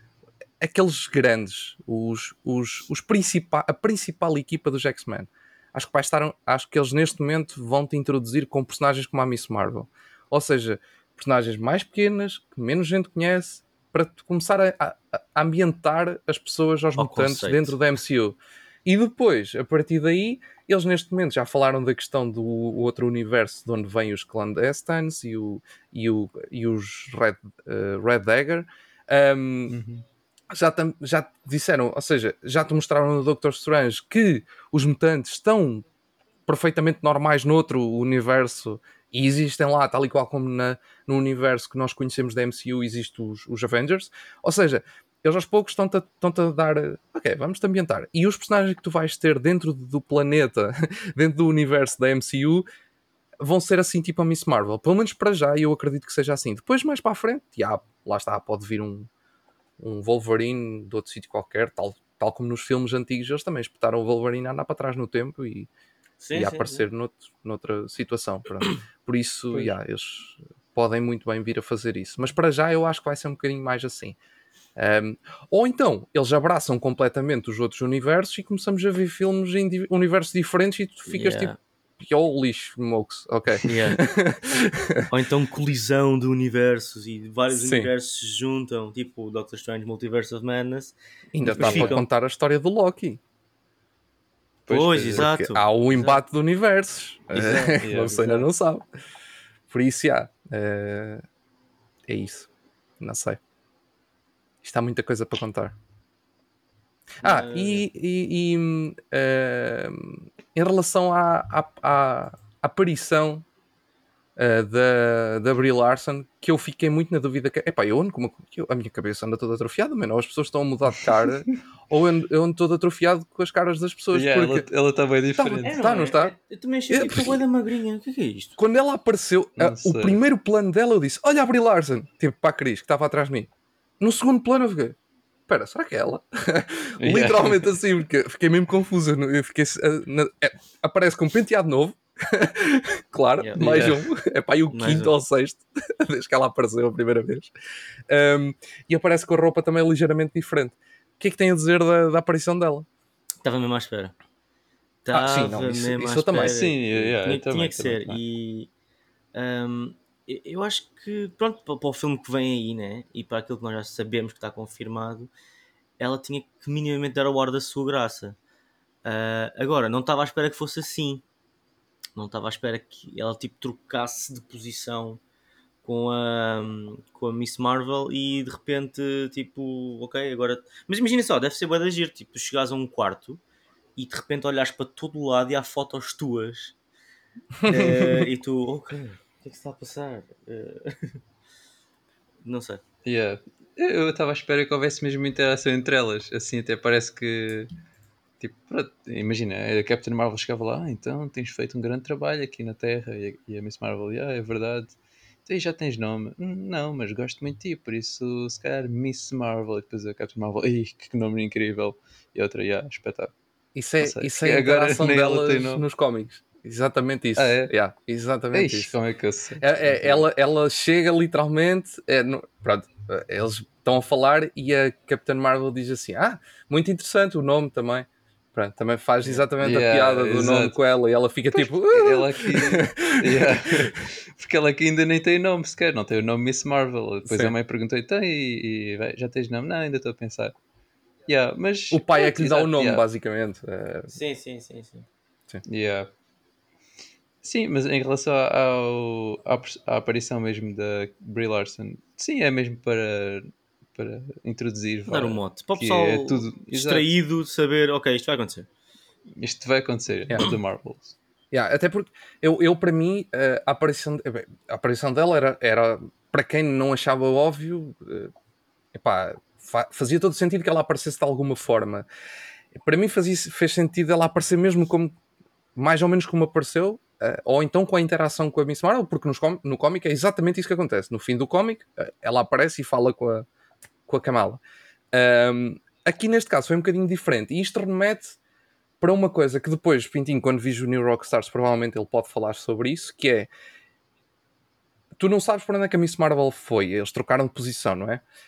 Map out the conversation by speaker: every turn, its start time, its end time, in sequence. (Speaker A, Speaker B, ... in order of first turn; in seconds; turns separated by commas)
Speaker A: 0.6-29.8, Speaker B: 17.0-17.8, Speaker C: 29.7-30.0, Speaker A: 30.5-35.9, Speaker A: 36.5-52.6, Speaker A: 53.4-59.1, Speaker A: 59.8-65.7, Speaker B: 66.2-66.8, Speaker A: 66.3-74.2, Speaker A: 74.8-85.1, Speaker B: 81.1-81.6, Speaker B: 83.6-84.0, Speaker B: 85.1-90.9, Speaker A: 87.5-87.9, Speaker A: 91.3-93.2, Speaker C: 91.4-92.0, Speaker B: 91.5-92.0, Speaker C: 94.7-95.3, Speaker B: 94.7-96.2, Speaker A: 95.1-98.8, Speaker B: 97.3-98.5, Speaker C: 97.6-98.2, Speaker A: 99.7-101.2, Speaker A: 102.1-102.5, Speaker A: 103.0-103.4, Speaker A: 104.6-105.8, Speaker A: 107.2-113.5, Speaker B: 107.2-107.8, Speaker A: 114.3-124.7, Speaker C: 124.1-125.8, Speaker A: 125.4-126.3, Speaker B: 125.6-128.6, Speaker A: 126.9-127.4, Speaker A: 128.6-133.5, Speaker C: 129.6-130.2, Speaker A: 134.0-135.0, Speaker A: 135.5-147.5, Speaker C: 137.0-137.8, Speaker B: 143.4-143.7, Speaker C: 143.6-144.0, Speaker B: 144.7-145.1, Speaker A: 148.1-152.8, Speaker B: 153.4-154.1, Speaker B: 155.0-158.7, Speaker A: 155.1-156.6, Speaker C: 156.3-158.2, Speaker B: 159.3-165.3, Speaker B: 166.0-168.4, Speaker B: 169.0-171.2, Speaker B: 172.2-175.2, Speaker B: 175.8-183.4, Speaker B: 183.9-186.8, Speaker A: 187.6-188.2, Speaker B: 187.6-191.2, Speaker B: 192.4-192.8, Speaker C: 193.0-197.7, Speaker C: 198.4-204.9, Speaker C: 205.4-213.3, Speaker A: 213.7-218.9, Speaker C: 214.0-215.8, Speaker C: 217.4-217.7, Speaker C: 218.5-220.2, Speaker A: 219.6-233.9, Speaker C: 229.6-230.8, Speaker C: 231.5-240.5, Speaker A: 237.3-237.5, Speaker C: 241.3-243.0, Speaker A: 241.9-244.1, Speaker B: 244.1-245.1, Speaker C: 245.7-246.1, Speaker C: 247.4-257.1, Speaker B: 255.1-258.7, Speaker C: 259.4-261.1, Speaker A: 260.3-260.6, Speaker A: 261.5-268.3, Speaker A: 268.9-272.1, Speaker A: 272.7-275.1, Speaker A: 275.8-283.5, Speaker A: 284.1-284.6, Speaker A: 285.1-288.4, Speaker A: 289.0-293.5, Speaker A: 295.1-298.2